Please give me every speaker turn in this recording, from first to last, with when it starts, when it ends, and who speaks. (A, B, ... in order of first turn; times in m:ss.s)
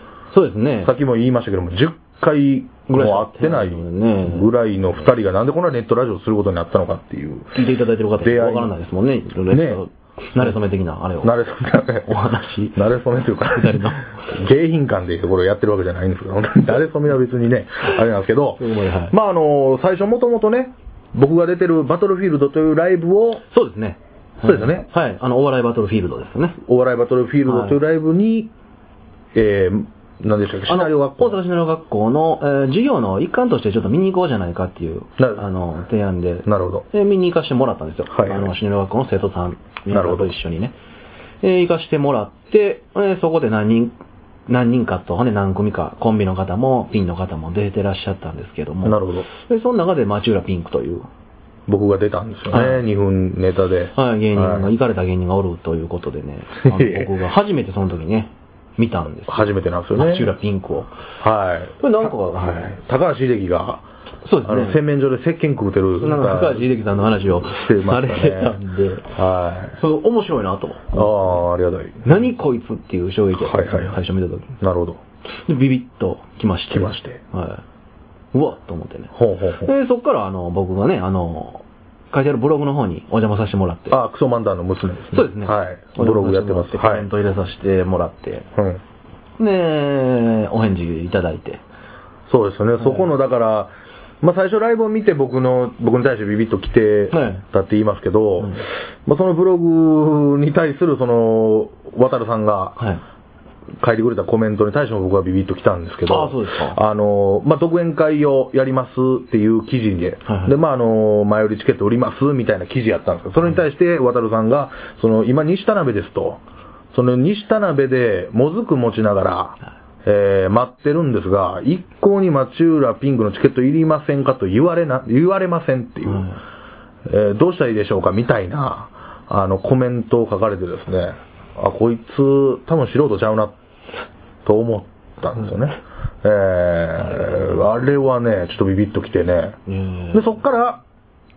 0:00.3-0:00.9 A
0:00.8-0:07.5 B
0:02.9-0:04.5 A
0:07.5-0:11.4 A
0:08.2-0:08.7 B
0:09.5-0:09.8 B
0:11.2-0:23.4 B
0:12.0-0:12.8 A
0:13.5-0:14.1 A
0:18.6-0:19.1 A
0:23.5-0:26.6 A
0:24.4-0:24.9 B
0:26.6-0:28.5 B
0:27.4-0:27.8 A
0:29.3-0:31.4 B
0:30.7-0:40.7 A
0:36.4-0:36.8 B
0:38.1-0:38.5 B
0:39.9-0:40.3 B
0:41.4-0:43.9 A
0:44.5-0:51.1 A
0:48.8-0:49.3 B
0:51.7-0:54.7 B
0:52.5-0:52.8 A
0:53.9-1:00.9 A
0:56.6-0:57.1 B
0:59.3-1:00.3 B
1:01.2-1:03.8 B
1:01.8-1:02.8 A
1:04.2-1:04.8 A
1:04.4-1:06.7 B
1:06.0-1:09.1 A
1:07.2-1:08.6 B
1:09.1-1:09.8 B
1:09.7-1:11.4 A
1:10.9-1:12.2 B
1:12.0-1:14.6 A
1:13.4-1:14.0 B
1:14.6-1:15.0 B
1:15.4-1:17.6 A
1:16.7-1:17.2 B
1:18.3-1:24.0 A
1:19.1-1:19.7 B
1:23.9-1:27.1 B
1:25.1-1:28.5 A
1:28.5-1:28.8 B
1:29.4-1:31.6 A
1:32.3-1:42.8 B
1:32.8-1:33.1 A
1:37.1-1:37.4 A
1:43.8-1:56.4 B
1:46.1-1:46.8 A
1:50.2-1:50.5 A
1:56.9-2:06.3 B
2:06.1-2:06.4 A
2:07.0-2:13.5 B
2:14.4-2:19.6 B
2:17.0-2:17.6 A
2:19.7-2:20.4 A
2:20.1-2:20.8 B